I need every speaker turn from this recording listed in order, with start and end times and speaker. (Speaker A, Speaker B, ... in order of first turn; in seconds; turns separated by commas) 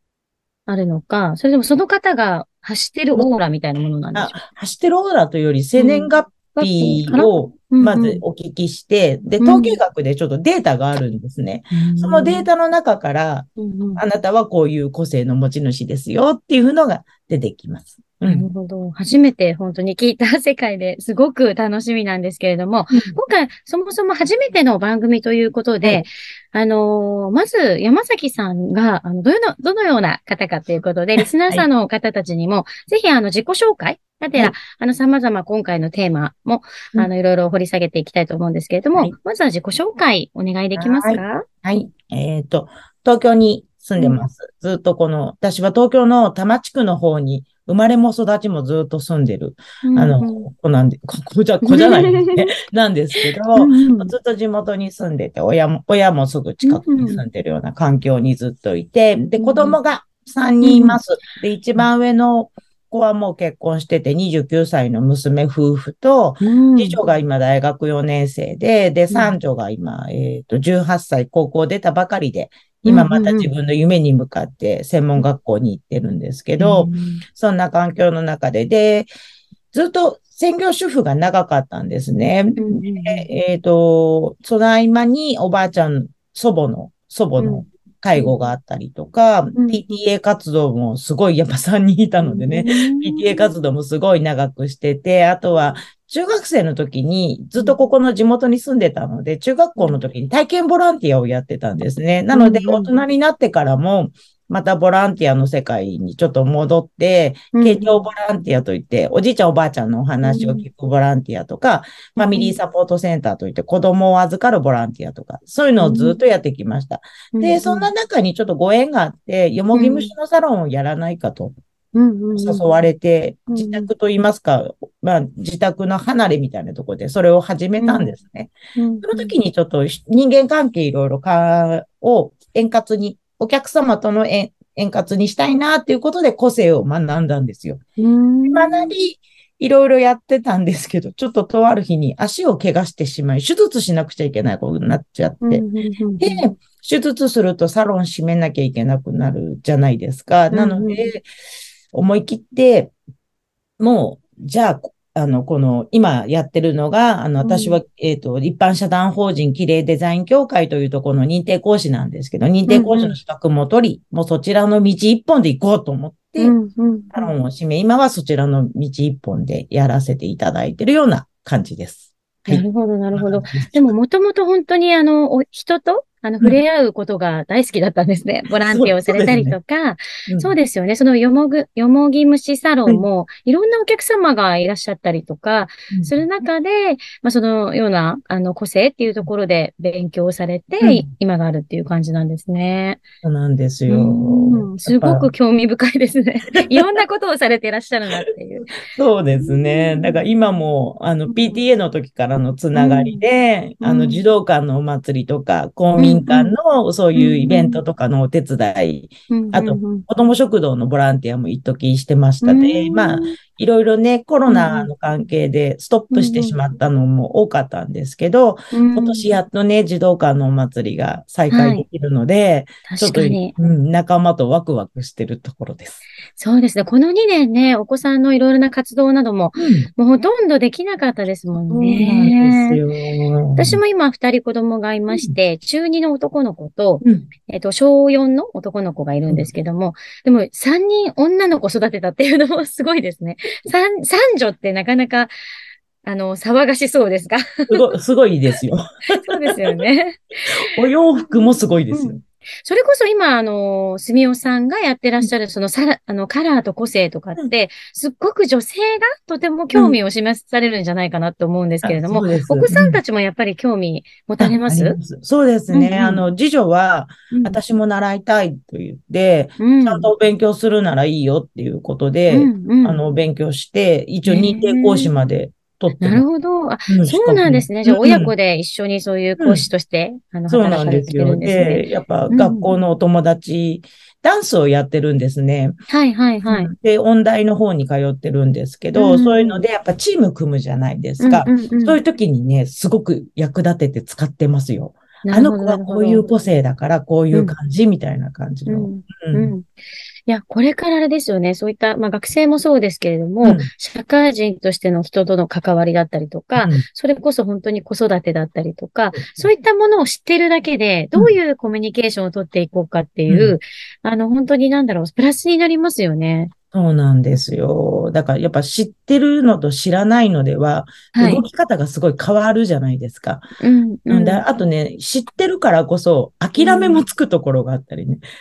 Speaker A: 0.7-4.3, Speaker B: 4.1-18.5, Speaker A: 5.8-8.2, Speaker A: 9.4-9.8, Speaker A: 11.7-12.5, Speaker A: 13.6-14.0, Speaker A: 18.2-41.5, Speaker B: 22.9-23.2, Speaker B: 40.8-79.1, Speaker A: 44.0-44.2, Speaker A: 49.8-50.5, Speaker A: 51.6-52.5, Speaker A: 53.6-54.1, Speaker A: 56.6-57.2, Speaker A: 59.4-59.8, Speaker A: 60.6-61.0, Speaker A: 66.4-67.0, Speaker A: 72.9-73.5, Speaker A: 76.6-77.2, Speaker B: 79.7-121.6, Speaker A: 82.6-83.3, Speaker A: 87.4-88.3, Speaker A: 89.5-89.9, Speaker A: 92.2-93.5, Speaker A: 99.8-100.0, Speaker A: 102.3-103.0, Speaker A: 107.5-107.9, Speaker A: 110.2-110.7, Speaker A: 112.2-112.5, Speaker A: 115.8-116.2, Speaker A: 117.3-117.9, Speaker A: 119.7-120.1, Speaker A: 121.9-122.7, Speaker B: 122.3-128.5, Speaker A: 123.5-123.9, Speaker A: 127.8-128.2, Speaker A: 128.8-129.3, Speaker B: 129.0-137.8, Speaker A: 138.0-138.9, Speaker B: 138.5-145.7, Speaker A: 145.4-146.5, Speaker B: 146.2-151.2, Speaker A: 150.5-151.1, Speaker B: 151.9-152.9, Speaker B: 153.8-166.6, Speaker A: 157.4-157.8, Speaker A: 162.7-163.2, Speaker A: 166.4-167.3, Speaker B: 167.1-173.9, Speaker A: 172.4-193.0, Speaker B: 178.7-179.6, Speaker B: 180.3-180.5, Speaker B: 185.9-186.2, Speaker B: 190.8-191.1, Speaker B: 193.2-195.3, Speaker A: 193.9-198.8, Speaker B: 196.6-196.9, Speaker B: 198.6-226.0, Speaker A: 199.4-200.2, Speaker A: 201.3-201.6, Speaker A: 202.7-203.2, Speaker A: 203.8-204.2, Speaker A: 206.0-206.6, Speaker A: 207.1-207.8, Speaker A: 209.3-210.1, Speaker A: 212.4-213.4, Speaker A: 214.5-214.9, Speaker A: 216.1-216.6, Speaker A: 218.7-219.3, Speaker A: 221.5-221.9, Speaker A: 222.9-223.5, Speaker A: 226.4-232.8, Speaker B: 229.6-229.9, Speaker B: 231.7-233.8, Speaker A: 233.6-245.3, Speaker B: 237.0-237.3, Speaker A: 246.0-247.8, Speaker B: 247.7-249.8, Speaker A: 249.2-250.2, Speaker B: 250.5-252.2, Speaker A: 251.1-265.0, Speaker B: 261.8-263.0, Speaker B: 264.4-276.3, Speaker A: 265.7-266.2, Speaker A: 267.3-267.6, Speaker A: 269.6-270.1, Speaker A: 272.3-273.0, Speaker A: 274.2-275.1, Speaker A: 276.0-282.7, Speaker B: 276.9-278.3, Speaker B: 279.4-279.7, Speaker B: 280.5-285.8, Speaker A: 285.9-286.7, Speaker B: 286.4-299.5, Speaker A: 289.0-289.6, Speaker A: 291.2-292.0, Speaker A: 295.2-296.3, Speaker A: 298.7-299.7, Speaker A: 300.3-316.5, Speaker B: 303.4-303.7, Speaker B: 306.6-306.9, Speaker B: 309.1-309.5, Speaker B: 313.3-313.6, Speaker B: 316.7-323.5, Speaker A: 321.1-321.4, Speaker A: 323.6-324.4, Speaker B: 324.1-328.2, Speaker A: 326.6-327.0